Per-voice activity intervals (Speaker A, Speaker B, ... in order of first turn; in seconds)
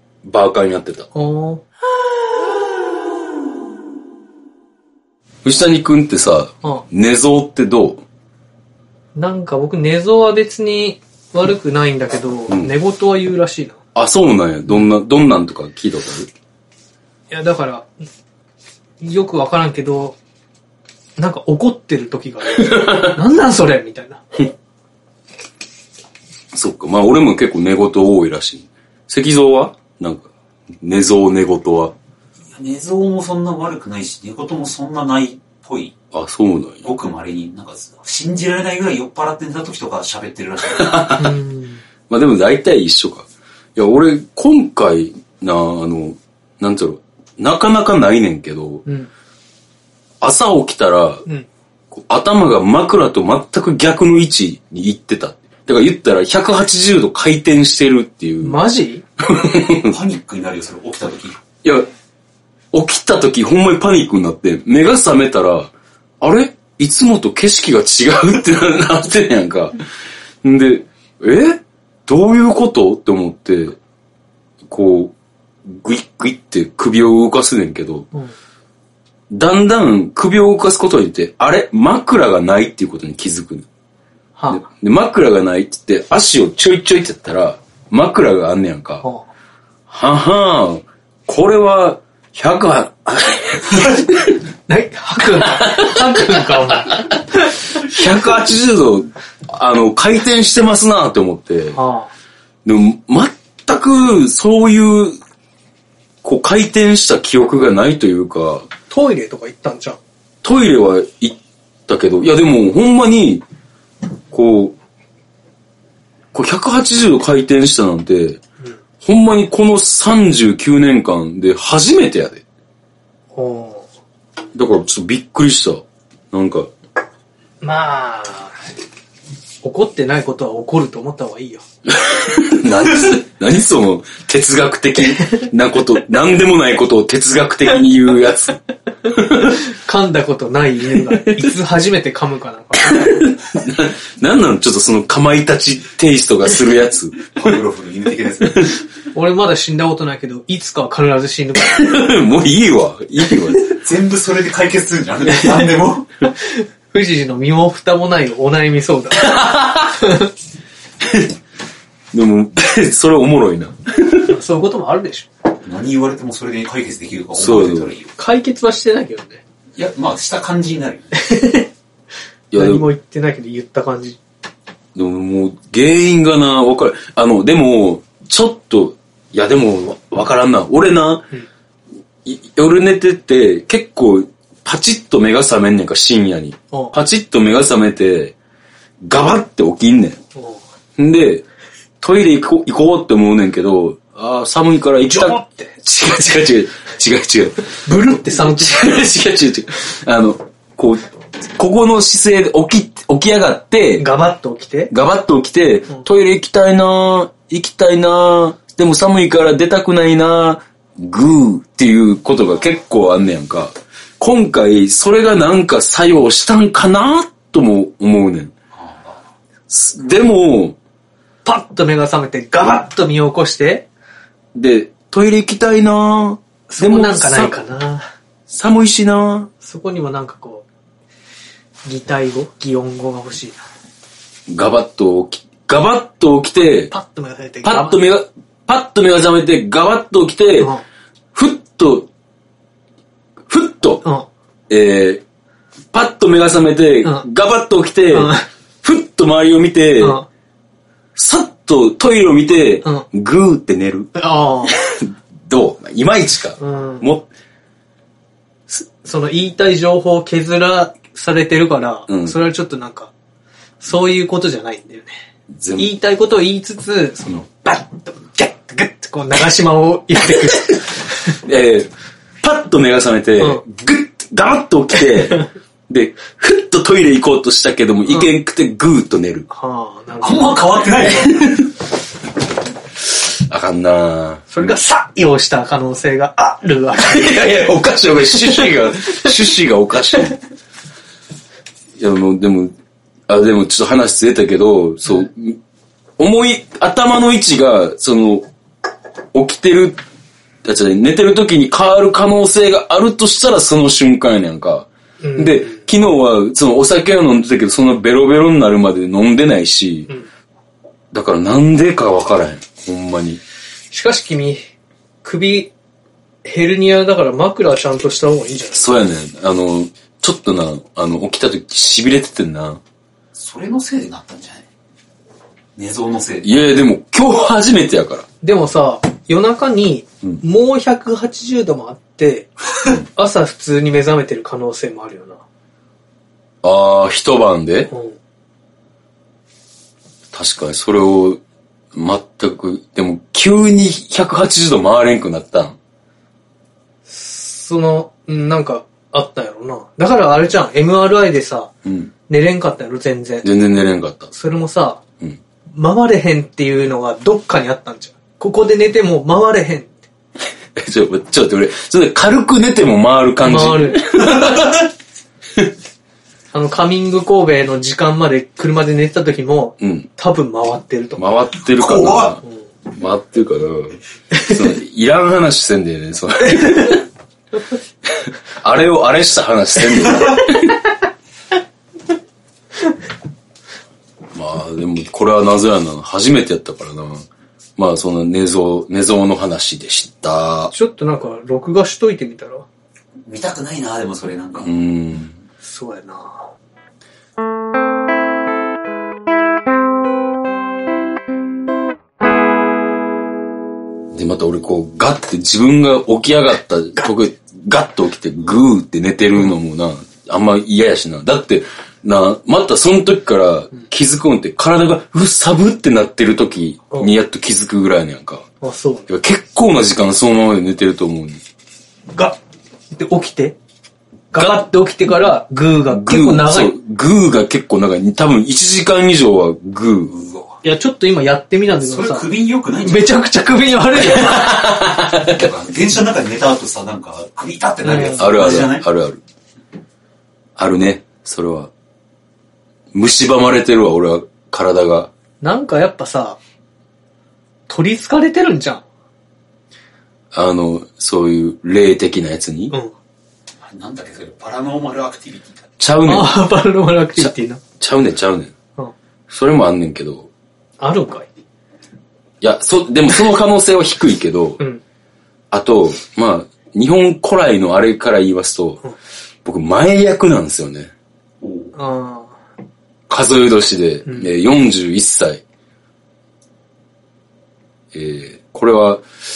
Speaker A: 0.2-1.1, 5.4-8.0, 13.9-16.3, 22.6-23.1, 26.5-30.3, 30.8-31.9, 36.1-36.9, 40.8-41.3, 42.1-48.8, 50.2-51.2, 51.9-58.6, 59.2-60.0, 62.7-69.8, 70.4-73.8, 74.7-75.1, 75.7-78.1, 79.3-83.7, 84.5-89.0, 89.9-94.3, 95.4-97.1, 97.7-101.8, 102.6-105.2, 106.2-108.7, 110.4-113.4, 114.3-114.8, 116.3-118.4, 119.0-122.4, 124.5-126.7, 131.9-139.6, 142.8-147.5, 151.6-153.7, 159.2-159.9, 161.0-161.3, 162.1-164.3, 167.3-167.9, 172.5-172.8, 174.9-181.3, 182.2-188.3, 189.0-190.2, 191.0-191.4, 192.0-204.1, 204.9-218.5, 219.7-220.8, 224.5-227.6, 228.5-229.5, 234.5-236.9, 237.6-240.7, 241.3-242.1, 243.5-244.0, 244.7-245.2, 245.9-250.2, 251.2-254.1, 254.7-257.3, 262.1-262.3, 265.5-265.9, 271.4-271.9, 272.4-279.5, 283.3-284.7, 287.0-290.4, 292.0-292.7, 293.3-295.6, 296.2-298.5, 299.3-300.0, 300.6-310.1, 311.1-313.4, 318.7-322.8, 326.4-328.2, 336.6-337.9, 340.3-341.4, 341.9-345.8, 351.8-352.1, 353.4-354.3, 360.7-364.9, 369.8-370.1, 371.2-377.0, 378.1-380.8, 384.3-390.7, 394.6-395.3, 404.1-418.4, 419.1-421.4, 425.9-430.2, 434.0-435.5, 438.2-439.2, 440.6-441.7, 442.9-445.1, 450.3-452.7, 455.8-456.5, 457.2-458.5, 459.3-460.3, 462.4-464.6, 465.5-468.8, 469.4-470.9, 473.1-475.4, 477.9-479.0
Speaker B: 1.1-1.6, 9.1-13.8, 17.3-17.9, 19.0-20.2, 21.2-24.2, 41.2-41.8, 58.4-59.0, 84.4-84.6, 94.7-97.5, 101.7-102.1, 108.9-110.0, 123.3-123.8, 127.6-128.5, 129.6-131.6, 139.5-143.3, 149.1-152.0, 155.3-155.7, 156.3-160.3, 164.3-165.3, 168.2-169.4, 171.2-171.7, 172.5-174.2, 190.3-190.6, 195.1-195.7, 197.8-199.0, 204.0-204.9, 221.4-223.9, 226.7-228.1, 229.6-230.6, 231.8-233.6, 236.9-238.0, 240.6-240.8, 248.1-248.4, 250.0-250.3, 254.1-254.8, 256.6-257.1, 258.7-263.1, 263.8-265.1, 265.8-271.3, 279.5-281.3, 284.5-287.5, 305.2-305.8, 313.9-314.6, 315.2-315.7, 316.4-318.9, 328.4-335.4, 337.9-338.1, 347.1-351.7, 352.3-353.5, 354.3-355.0, 355.7-359.9, 363.4-364.3, 366.5-371.2, 390.7-392.6, 395.6-396.4, 418.6-419.1, 422.9-423.6, 424.3-426.7, 430.6-432.2, 432.8-434.7, 437.8-438.6, 445.4-446.4, 447.7-448.8, 456.1-457.6, 460.8-461.3, 471.7-472.4
Speaker C: 32.5-36.0, 36.8-41.2, 59.4-61.4, 147.3-148.8, 153.7-156.1, 165.6-168.1, 169.8-171.2, 218.7-219.2, 280.2-281.6, 323.4-324.7, 325.8-326.6, 371.8-372.4, 393.2-394.7, 431.8-433.2, 435.1-438.8, 453.6-455.7, 471.4-471.7